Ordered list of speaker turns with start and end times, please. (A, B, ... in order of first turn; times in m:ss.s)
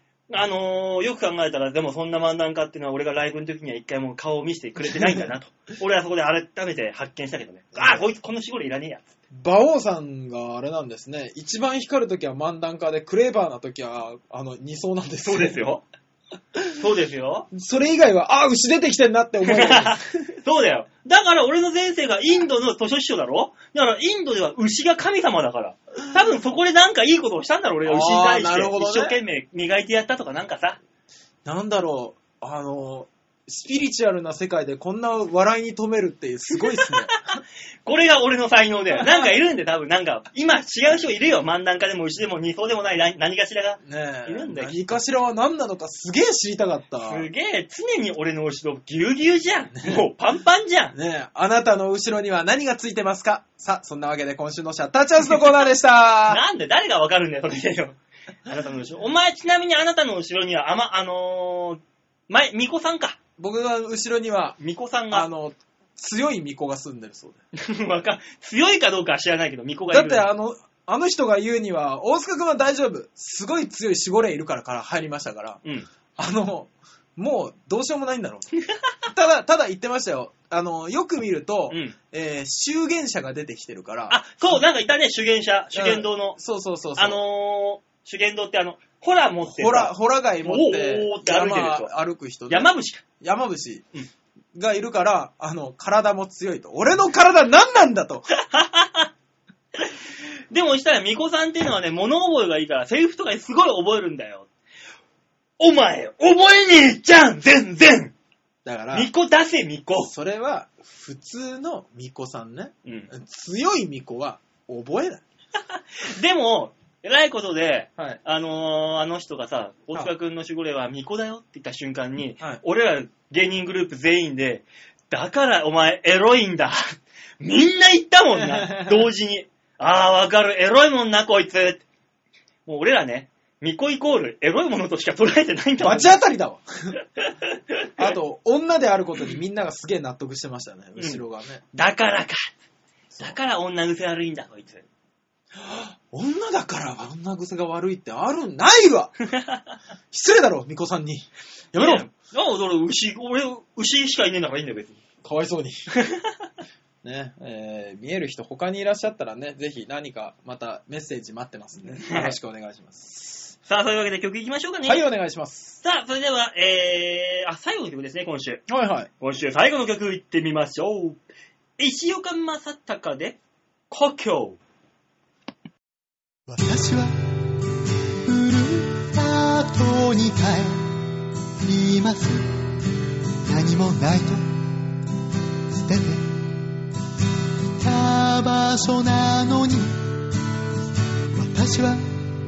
0:00.3-0:09.2 A
0:04.9-0:05.2 B
0:07.8-0:08.0 B
0:09.3-0:15.6 B
0:15.2-0:15.8 A
0:16.8-0:17.5 A
0:17.5-0:20.0 B
0:19.4-0:30.8 A
0:27.9-0:29.2 B
0:31.4-0:37.1 B
0:36.7-0:45.0 A
0:43.8-0:47.3 B
0:47.1-0:51.0 A
0:50.9-0:56.4 B
0:56.3-1:03.2 A
1:03.4-1:04.6 B
1:04.6-1:05.3 A
1:05.1-1:07.4 B
1:07.6-1:10.3 A
1:09.9-1:15.6 B
1:15.6-1:15.9 A
1:16.2-1:18.5 B
1:19.0-1:24.6 B
1:21.7-1:22.0 A
1:24.1-1:26.4 A
1:25.7-1:27.2 B
1:27.0-1:31.9 A
1:29.4-1:33.9 B
1:32.5-1:33.0 A
1:34.6-1:38.3 B
1:38.3-1:39.1 A
1:40.5-1:44.5 A
1:45.6-1:48.1 A
1:48.6-1:49.1 B
1:48.9-1:50.1 A
1:50.0-1:55.2 B
1:55.7-2:11.8 A
2:08.4-2:09.0 B
2:12.7-2:16.2 A
2:15.8-2:17.0 B
2:17.2-2:18.0 A
2:18.0-2:21.6 B
2:21.7-2:22.5 A
2:23.2-2:24.8 A
2:25.6-2:29.1 B
2:29.3-2:29.6 A
2:30.1-2:32.1 B
2:31.8-2:35.0 A
2:35.2-2:35.8 B
2:36.0-2:36.4 A
2:37.0-2:43.5 B
2:42.0-2:42.4 A
2:43.7-2:45.0 A
2:44.9-2:45.8 B
2:45.8-2:48.7 A
2:48.7-2:49.1 B
2:49.2-2:51.2 A
2:51.8-2:53.4 A
2:53.9-2:54.6 A
2:56.5-2:57.2 C
2:58.2-3:00.9 C
3:01.6-3:02.5 C
3:03.4-3:04.4 C
3:05.7-3:06.3 C
3:07.8-3:10.1 C
3:11.3-3:12.1 C